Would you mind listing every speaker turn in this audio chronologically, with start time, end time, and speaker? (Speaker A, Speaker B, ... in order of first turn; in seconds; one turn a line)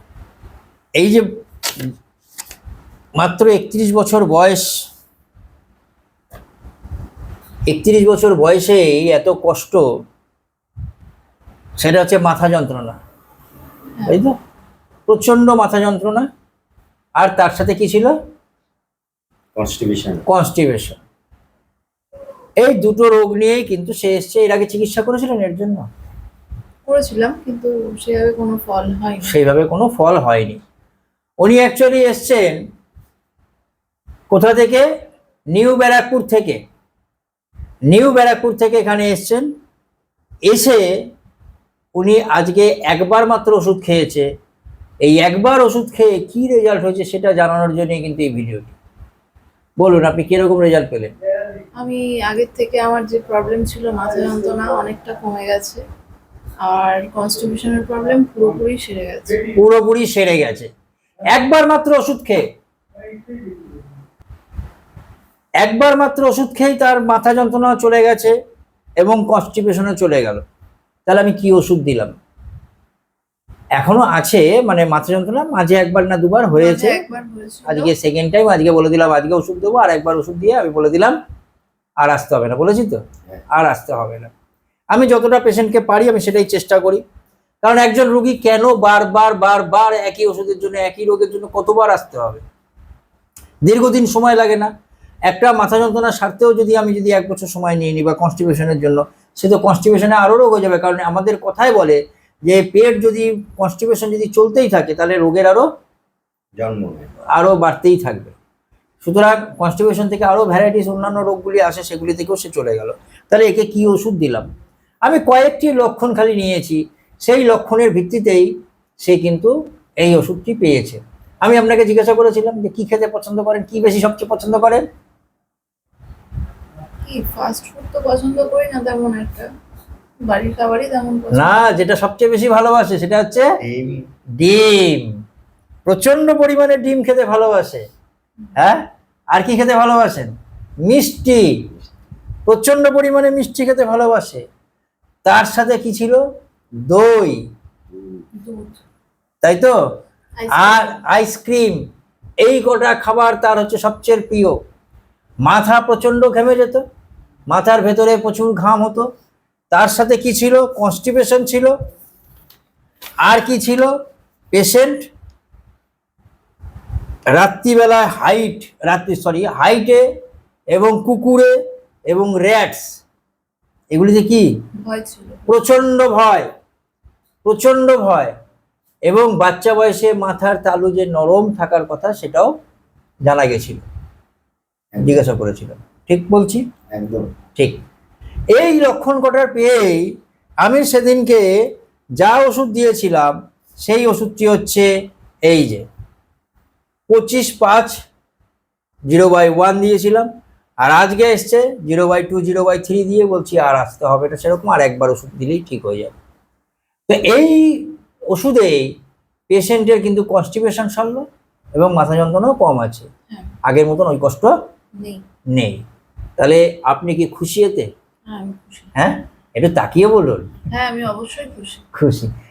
Speaker A: 1.0-1.3
Speaker A: 3.2-4.7
Speaker A: 7.7-9.8
Speaker A: 11.8-13.0
Speaker A: 14.1-14.4
Speaker A: 15.1-16.3
Speaker A: 17.2-18.2
Speaker B: 19.6-20.2
Speaker A: 20.3-21.0
Speaker A: 22.6-25.9
Speaker C: 26.9-29.4
Speaker A: 29.2-30.6
Speaker A: 31.4-32.6
Speaker A: 34.3-34.9
Speaker A: 35.5-36.6
Speaker A: 37.9-39.5
Speaker A: 40.5-40.9
Speaker A: 42.0-44.3
Speaker A: 45.0-48.8
Speaker A: 49.8-51.1
Speaker C: 51.8-55.8
Speaker C: 56.6-59.4
Speaker A: 59.5-60.7
Speaker A: 61.2-62.5
Speaker A: 65.6-68.4
Speaker A: 69.0-70.4
Speaker A: 71.1-72.1
Speaker A: 73.8-77.0
Speaker C: 76.6-77.9
Speaker A: 77.7-81.2
Speaker A: 82.0-84.3
Speaker A: 84.9-87.0
Speaker A: 87.6-92.4
Speaker A: 93.6-94.7
Speaker A: 95.3-105.7
Speaker B: 106.6-107.1
Speaker A: 107.3-108.3
Speaker A: 109.0-114.5
Speaker A: 115.0-124.9
Speaker C: 127.0-129.5
Speaker C: 130.2-131.7
Speaker A: 131.3-133.5
Speaker B: 133.6-134.1
Speaker A: 134.4-135.2
Speaker A: 135.9-137.8
Speaker A: 138.6-140.3
Speaker A: 140.8-141.7
Speaker A: 142.5-144.4
Speaker A: 145.2-146.2
Speaker A: 146.9-147.4
Speaker B: 147.9-148.2
Speaker C: 148.3-148.8
Speaker A: 149.4-149.7
Speaker C: 150.4-151.0
Speaker A: 150.5-151.8
Speaker A: 152.4-154.6
Speaker A: 155.5-156.8
Speaker A: 157.5-159.1
Speaker A: 159.7-161.7
Speaker A: 163.2-163.9
Speaker A: 164.5-165.1
Speaker A: 167.3-170.0
Speaker A: 170.7-171.6
Speaker A: 172.1-172.9
Speaker A: 173.9-174.5
Speaker C: 174.8-175.4
Speaker A: 175.5-176.5
Speaker A: 177.4-178.3
Speaker A: 179.1-182.5
Speaker A: 183.2-183.8
Speaker A: 185.0-186.7
Speaker B: 186.9-187.3
Speaker A: 188.6-191.5
Speaker A: 192.2-194.9
Speaker A: 195.5-195.9
Speaker A: 197.1-198.0
Speaker A: 199.1-200.3
Speaker A: 200.8-206.1
Speaker A: 207.1-208.9
Speaker A: 209.5-213.1
Speaker A: 213.6-214.5
Speaker C: 215.0-215.2
Speaker A: 215.5-215.8
Speaker A: 216.4-217.9
Speaker C: 218.3-218.9
Speaker A: 218.9-220.5
Speaker C: 220.7-221.8
Speaker A: 221.9-222.3